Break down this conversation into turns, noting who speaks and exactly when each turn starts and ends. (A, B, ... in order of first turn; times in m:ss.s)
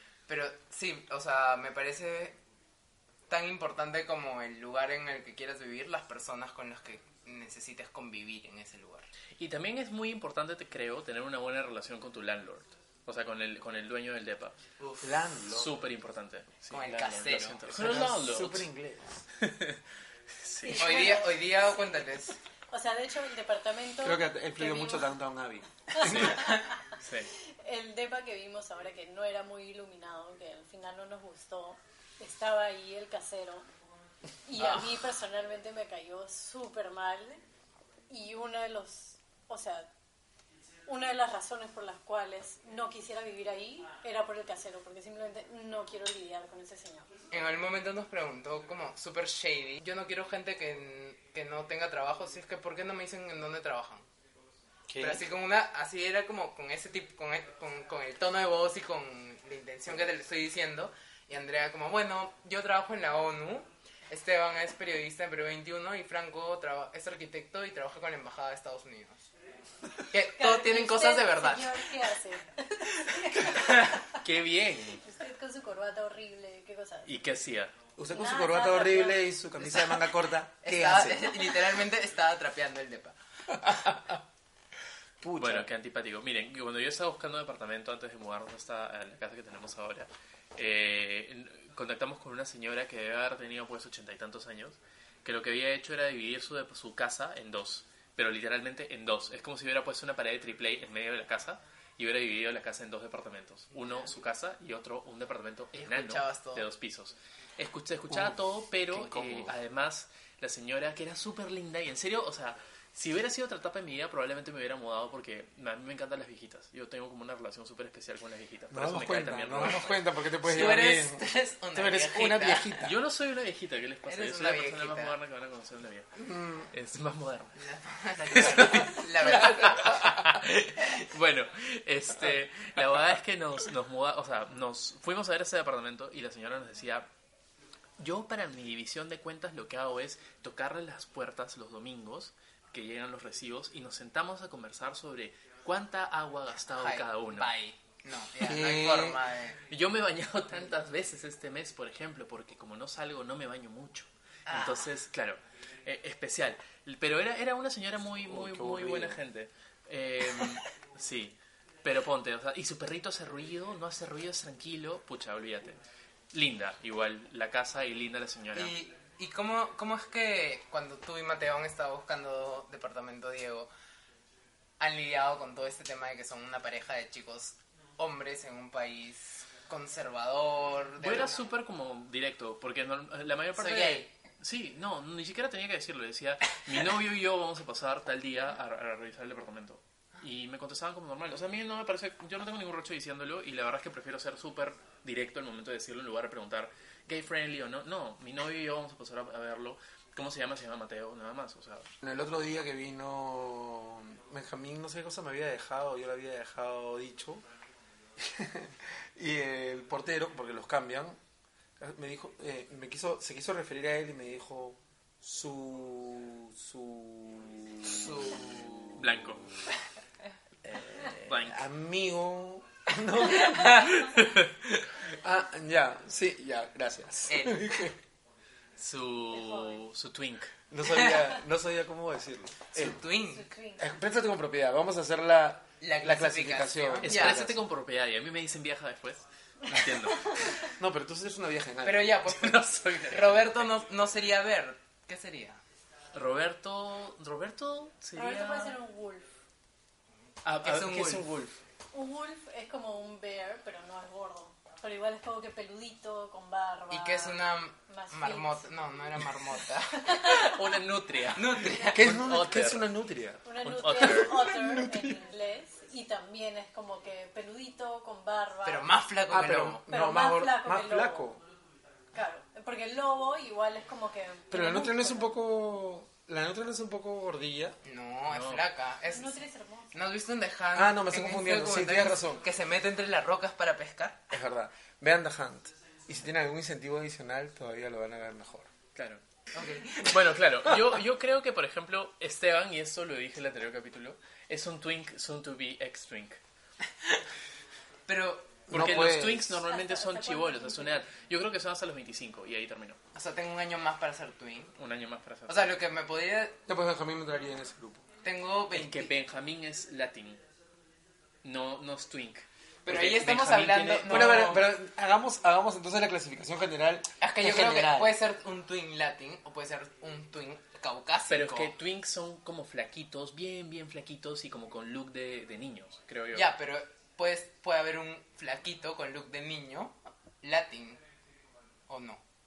0:00.3-0:02.4 A
0:03.3-0:09.1 A
0:09.4-0:14.6 B
0:14.8-0:15.1 A
0:15.0-0:15.7 C
0:15.4-0:18.7 B
0:16.7-0:17.6 A
0:17.7-0:19.2 C
0:19.4-0:19.8 B
0:20.4-0:21.2 B
0:20.6-0:21.9 D
0:20.8-0:22.4 A
0:22.7-0:25.1 D
0:24.0-0:26.5 C
0:25.9-0:26.7 D
0:26.0-0:27.3 B
0:27.4-0:33.7 D
0:34.4-0:37.4 D
0:38.1-0:39.9 D
0:40.8-0:47.1 D
0:47.3-0:54.0 A
0:54.9-0:55.2 C
0:55.0-1:09.3 A
1:10.1-1:11.9 A
1:10.3-1:14.2 D
1:13.2-1:14.1 A
1:14.1-1:15.0 B
1:15.0-1:17.1 D
1:17.0-1:17.7 B
1:18.0-1:21.4 C
1:18.1-1:19.2 D
1:19.7-1:20.0 A
1:20.6-1:23.2 A
1:23.5-1:24.1 C
1:25.2-1:25.7 C
1:25.4-2:00.8 B
1:45.8-1:46.6 A
1:48.1-1:48.4 C
1:48.9-1:49.5 A
1:58.7-2:02.9 C
2:00.5-2:02.8 A
2:02.8-2:06.1 B
2:04.0-2:05.2 A
2:06.2-2:06.7 C
2:06.7-2:07.6 B
2:07.6-2:10.2 A
2:08.3-2:17.1 B
2:18.0-2:27.5 B
2:26.7-2:29.6 A
2:28.4-2:29.2 C
2:29.7-2:45.8 B
2:34.5-2:34.9 A
2:38.2-2:39.2 C
2:46.3-2:48.7 B
2:48.5-2:53.7 A
2:54.8-3:01.4 A
3:01.0-3:21.9 B
3:03.6-3:04.1 A
3:22.0-3:27.4 C
3:28.2-3:31.2 C
3:31.8-3:38.6 C
3:37.9-3:38.8 A
3:38.8-3:39.5 B
3:40.6-3:44.1 C
3:40.9-3:41.7 B
3:43.5-3:44.5 B
3:45.0-3:48.0 C
3:47.3-3:47.8 A
3:48.8-3:50.5 B
3:49.3-3:49.8 D
3:50.7-3:53.0 C
3:52.7-3:53.5 A
3:53.3-3:53.8 D
3:53.8-3:57.6 C
3:55.8-3:57.4 A
3:57.0-4:00.6 B
3:59.7-4:00.6 D
4:00.6-4:02.3 C
4:01.8-4:05.6 A
4:02.2-4:03.6 B
4:06.1-4:08.8 B
4:08.2-4:09.3 D
4:10.4-4:11.6 B
4:10.6-4:11.3 A
4:11.9-4:18.7 D
4:16.9-4:20.3 A
4:19.9-4:20.6 D
4:20.1-4:22.9 B
4:21.3-4:22.2 A
4:21.9-4:25.2 C
4:23.4-4:28.9 D
4:23.6-4:24.5 B
4:28.6-4:29.8 A
4:29.3-4:31.4 C
4:29.9-4:31.3 D
4:32.1-4:35.4 D
4:34.5-4:37.8 C
4:37.8-4:39.4 A
4:38.3-4:38.6 B
4:39.1-4:39.9 D
4:39.9-4:44.2 A
4:40.7-4:42.4 C
4:44.3-4:48.7 C
4:48.9-4:49.2 B
4:49.5-4:50.2 A
4:50.0-4:56.4 B
4:58.1-4:58.6 A
4:58.7-4:59.6 C
4:58.7-5:03.0 B
4:59.6-5:01.0 D
5:03.1-5:04.7 A
5:04.8-5:05.8 B
5:05.5-5:06.6 A
5:06.7-5:08.0 C
5:08.2-5:09.1 A
5:08.7-5:10.4 B
5:11.4-5:14.7 B
5:12.8-5:14.6 A
5:14.1-5:18.2 C
5:17.2-5:21.7 A
5:21.3-5:26.5 B
5:26.3-5:31.0 A
5:31.9-5:32.2 A